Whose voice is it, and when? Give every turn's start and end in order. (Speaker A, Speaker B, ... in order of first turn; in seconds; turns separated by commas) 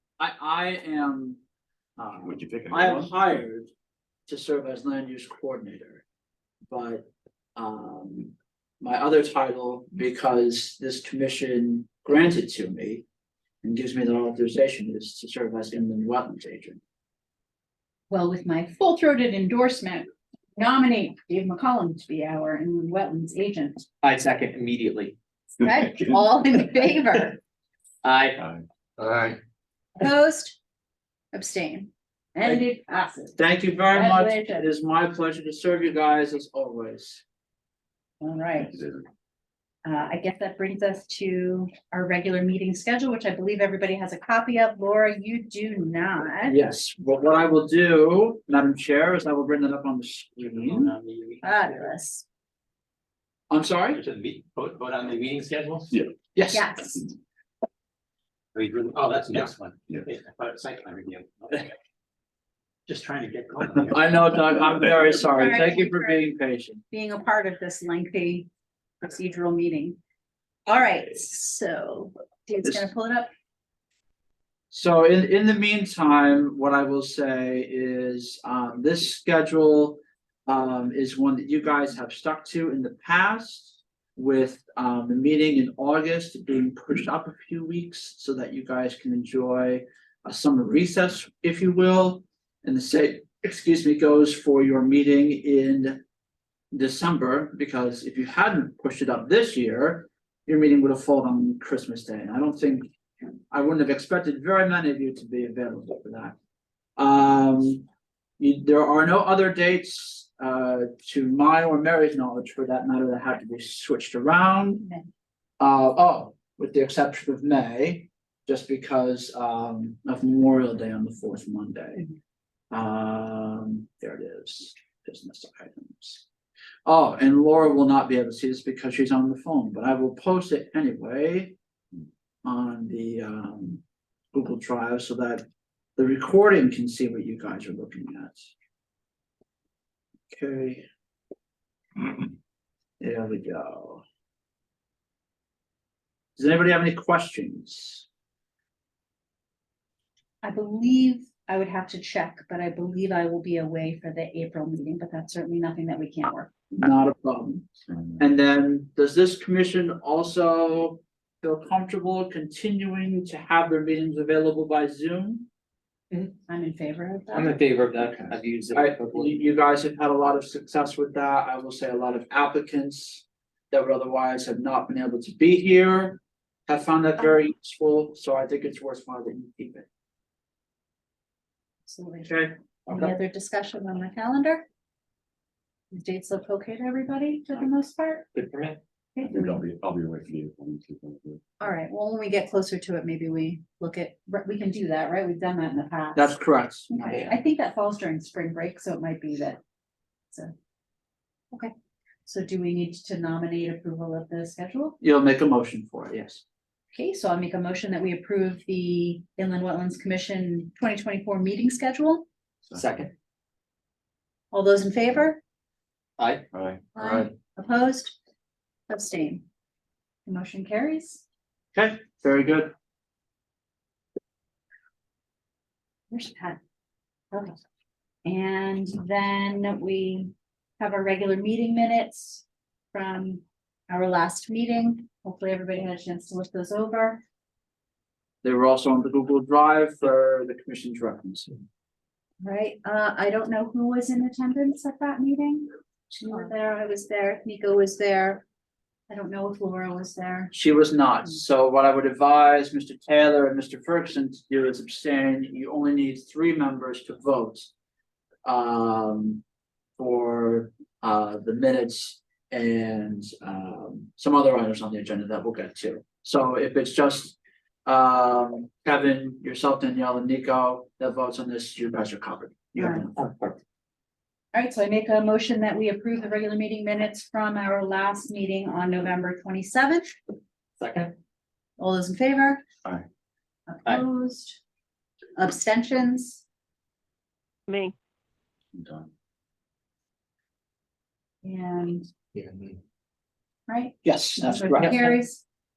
Speaker A: 0.2-1.4, Speaker A: 2.0-3.7, Speaker B: 2.2-3.2, Speaker A: 4.3-6.0, Speaker A: 6.7-13.0, Speaker A: 13.6-16.8, Speaker C: 18.1-23.9, Speaker D: 24.0-25.1, Speaker C: 25.6-27.4, Speaker D: 28.0-28.4, Speaker C: 30.0-30.6, Speaker C: 31.3-34.7, Speaker A: 33.4-37.2, Speaker C: 38.2-38.8, Speaker B: 38.7-39.0, Speaker C: 39.8-46.6, Speaker A: 46.5-50.9, Speaker D: 50.6-51.9, Speaker C: 51.4-52.2, Speaker A: 53.5-54.0, Speaker D: 53.9-55.9, Speaker A: 56.3-56.7, Speaker C: 56.5-57.0, Speaker D: 58.5-61.7, Speaker D: 62.9-64.4, Speaker A: 63.9-66.8, Speaker C: 65.2-66.3, Speaker C: 66.9-68.5, Speaker C: 69.0-70.0, Speaker C: 70.7-73.3, Speaker A: 74.7-96.0, Speaker A: 96.7-102.9, Speaker A: 103.5-106.3, Speaker A: 107.0-107.8, Speaker A: 108.4-114.8, Speaker C: 114.8-115.1, Speaker A: 115.6-122.0, Speaker A: 122.7-126.2, Speaker A: 126.8-131.5, Speaker A: 132.4-133.8, Speaker A: 134.3-135.4, Speaker A: 136.0-138.5, Speaker A: 140.3-140.8, Speaker A: 143.0-144.0, Speaker A: 146.4-148.1, Speaker C: 150.4-156.5, Speaker A: 156.8-157.7, Speaker A: 158.2-165.5, Speaker C: 166.5-167.6, Speaker D: 167.3-169.3, Speaker A: 168.7-179.9, Speaker C: 181.9-182.3, Speaker A: 182.2-183.2, Speaker C: 182.9-184.7, Speaker C: 185.9-188.3, Speaker D: 188.3-188.8, Speaker C: 189.1-189.6, Speaker B: 189.2-191.4, Speaker C: 191.6-196.4, Speaker A: 196.1-197.3, Speaker C: 196.9-199.6, Speaker C: 202.2-204.9, Speaker A: 205.0-206.4, Speaker C: 206.9-212.2, Speaker D: 212.7-213.1, Speaker C: 214.5-215.4, Speaker D: 216.2-216.4, Speaker B: 216.5-217.2, Speaker C: 216.9-218.2, Speaker C: 218.9-219.4, Speaker C: 220.2-221.2, Speaker A: 221.7-222.7, Speaker C: 226.1-226.6, Speaker C: 227.3-227.6, Speaker C: 228.2-237.2, Speaker A: 238.4-241.5, Speaker C: 242.4-248.4, Speaker C: 249.1-250.5, Speaker A: 250.5-257.7, Speaker A: 258.4-259.4, Speaker A: 260.0-273.1, Speaker C: 272.8-273.1, Speaker D: 273.1-273.6, Speaker C: 274.5-280.1, Speaker D: 280.8-281.1, Speaker C: 281.8-282.6, Speaker C: 283.7-284.6, Speaker C: 285.4-286.4, Speaker B: 288.7-289.1, Speaker C: 291.4-292.1, Speaker D: 292.3-292.7, Speaker C: 293.7-295.4, Speaker A: 294.0-295.1, Speaker D: 294.8-295.1